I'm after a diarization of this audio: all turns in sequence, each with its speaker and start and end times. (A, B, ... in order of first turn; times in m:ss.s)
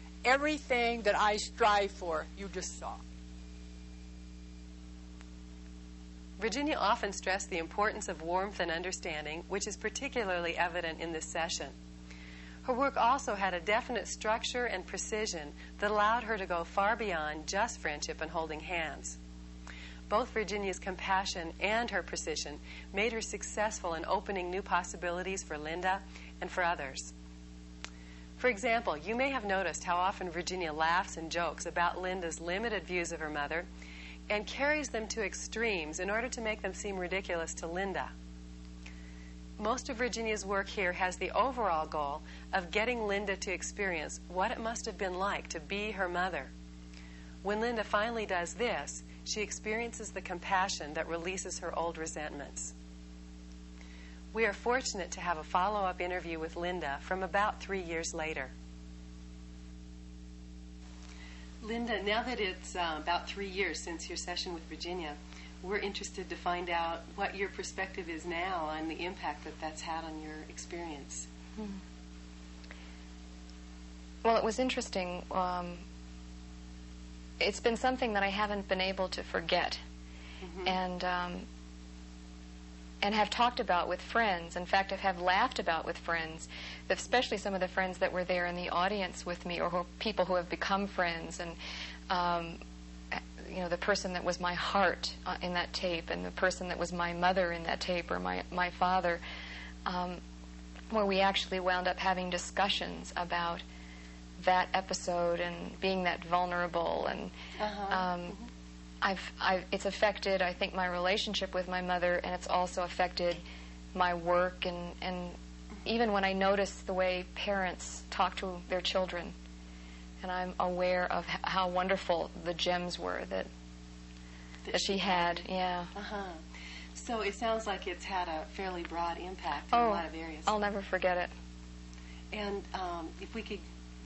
0:00.2-0:03.0 A
0:06.4-0:11.7 B
0:12.6-0:19.2 B
0:20.1-0:27.1 B
0:28.4-0:33.7 B
0:34.3-0:38.1 B
0:39.6-0:46.5 B
0:47.4-0:52.7 B
0:54.3-0:58.5 B
1:01.6-1:11.3 B
1:14.2-1:15.9 C
1:17.4-1:19.8 C
1:20.4-1:20.7 B
1:20.6-1:21.5 C
1:23.0-1:31.6 C
1:32.1-1:32.6 C
1:33.1-1:39.2 C
1:39.9-1:40.2 C
1:40.9-1:43.6 C
1:44.4-1:47.3 C
1:47.6-1:48.4 B
1:47.9-1:48.4 C
1:49.0-1:53.4 C
1:53.9-1:59.4 C
2:00.2-2:03.5 C
2:04.7-2:05.4 B
2:04.7-2:05.9 C
2:06.0-2:06.4 B
2:07.0-2:10.6 B
2:09.7-2:11.3 C
2:12.3-2:13.6 B